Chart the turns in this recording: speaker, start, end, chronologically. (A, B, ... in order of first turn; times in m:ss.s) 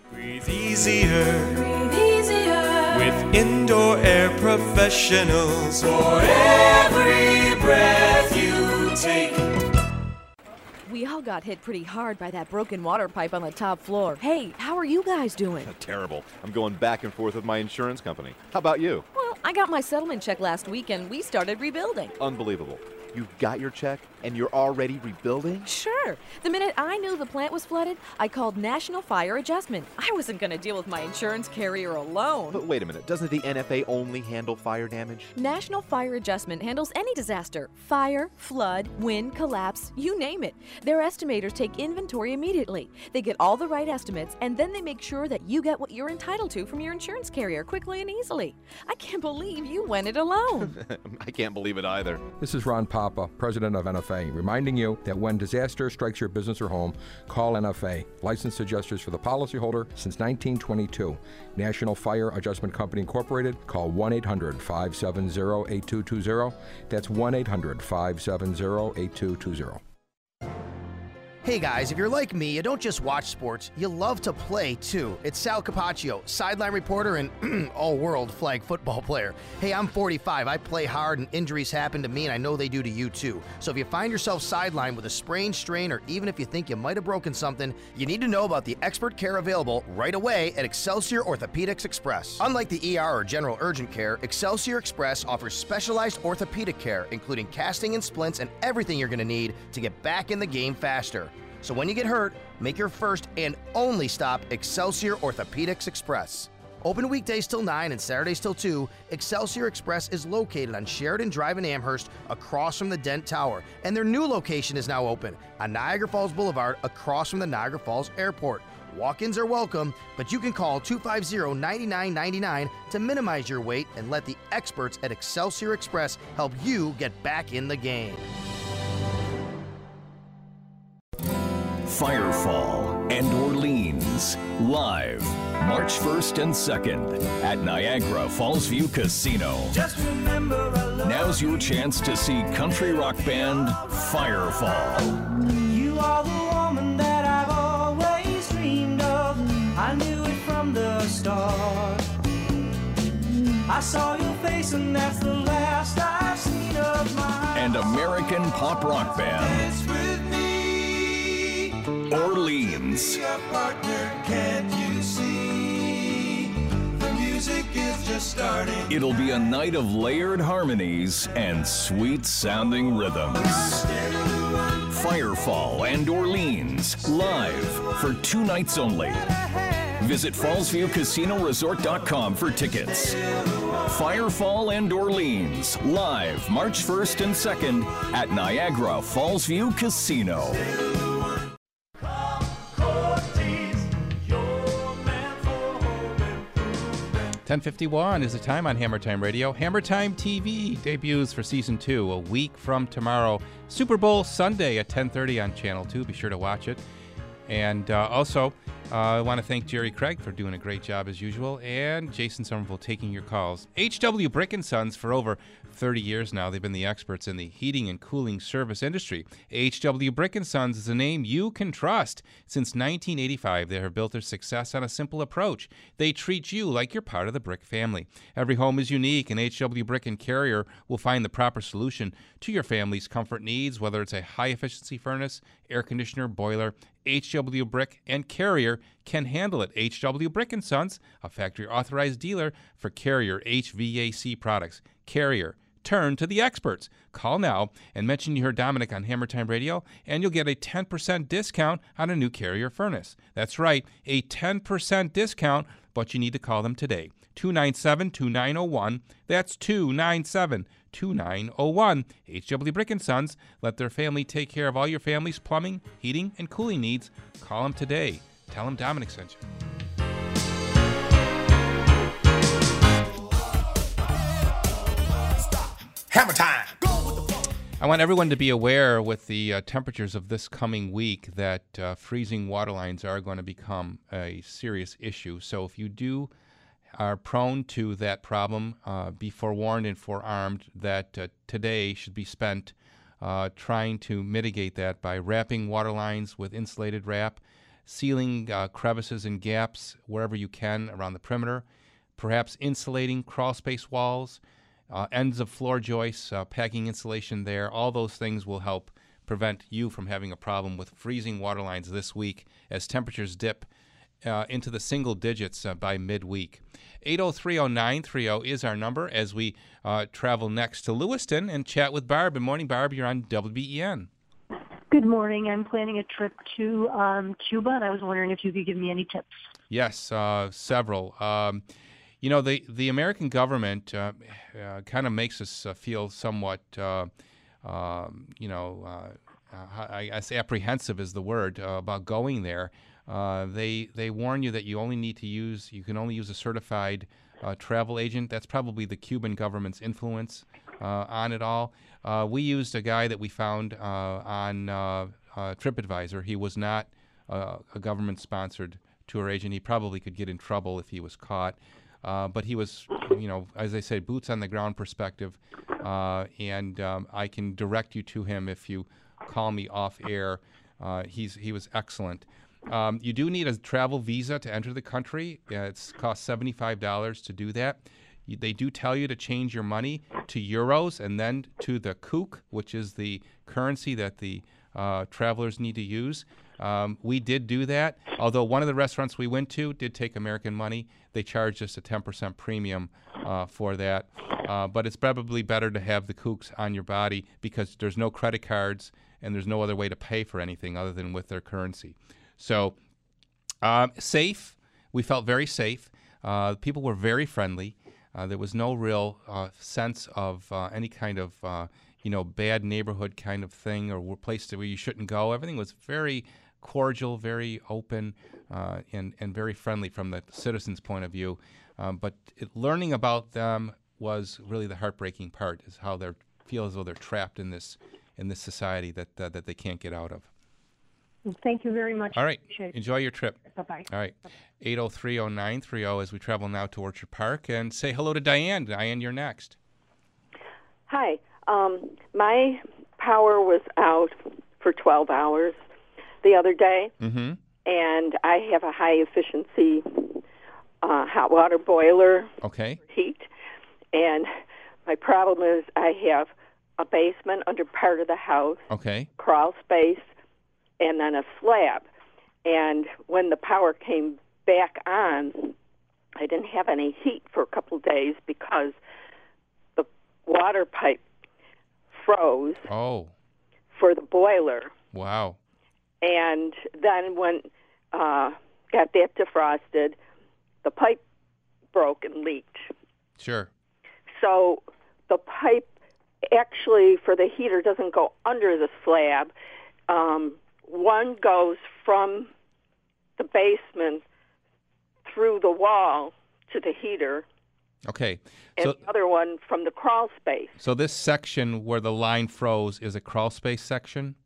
0:00.2-0:01.6 A
0:02.9-0:06.7 A
0:07.2-0:09.0 A
0:10.8-0:15.7 B
0:15.6-0:19.0 C
0:19.1-0:22.1 B
0:22.2-0:25.7 C
0:25.6-0:32.6 B
0:32.5-0:35.3 C
0:35.3-0:50.7 B
0:50.6-0:52.3 C
0:52.4-1:09.8 D
1:11.4-2:08.3 E
2:11.8-2:19.8 F
2:21.0-2:25.2 F
2:21.0-2:21.4 A
2:37.5-2:39.7 F
2:42.1-2:43.2 F
2:47.6-2:48.6 A
2:48.8-2:53.8 F
2:54.9-2:59.3 F
3:00.0-3:03.2 F
3:03.8-3:10.6 F
3:13.2-3:13.8 A
3:17.4-3:26.8 G
3:27.5-4:29.4 G
4:35.2-4:37.5 H
4:37.8-4:46.3 G
4:46.9-5:01.6 G
5:02.2-5:13.7 G
5:14.2-5:24.1 G
5:24.9-5:29.2 I
5:29.7-5:31.6 G
5:32.2-5:37.1 G
5:37.6-6:42.7 G
6:43.6-7:10.3 G
7:11.3-7:12.7 I
7:12.1-7:19.6 G
7:13.5-7:13.8 I
7:20.9-7:25.6 J
7:26.2-7:26.9 J
7:27.0-7:27.4 G
7:27.6-7:30.2 J
7:30.8-7:32.3 J
7:32.4-7:32.8 G
7:32.9-7:33.3 J
7:33.9-7:34.3 J
7:34.9-7:38.6 J
7:38.7-7:39.1 G
7:39.2-7:40.0 J
7:40.8-7:41.9 J
7:42.4-7:45.5 J
7:46.2-7:48.8 J
7:49.8-7:51.0 J
7:51.9-7:52.6 J
7:52.7-7:53.1 G
7:53.7-7:54.7 J
7:54.9-7:55.4 G
7:56.0-8:00.0 J
8:00.6-8:01.0 J
8:01.7-8:02.6 J
8:03.2-8:03.5 G
8:04.2-8:05.7 J
8:06.3-8:09.3 J
8:09.9-8:12.3 J
8:13.2-8:14.0 J
8:15.0-8:17.2 J
8:17.9-8:18.8 G
8:18.6-8:20.5 J
8:20.6-8:24.2 G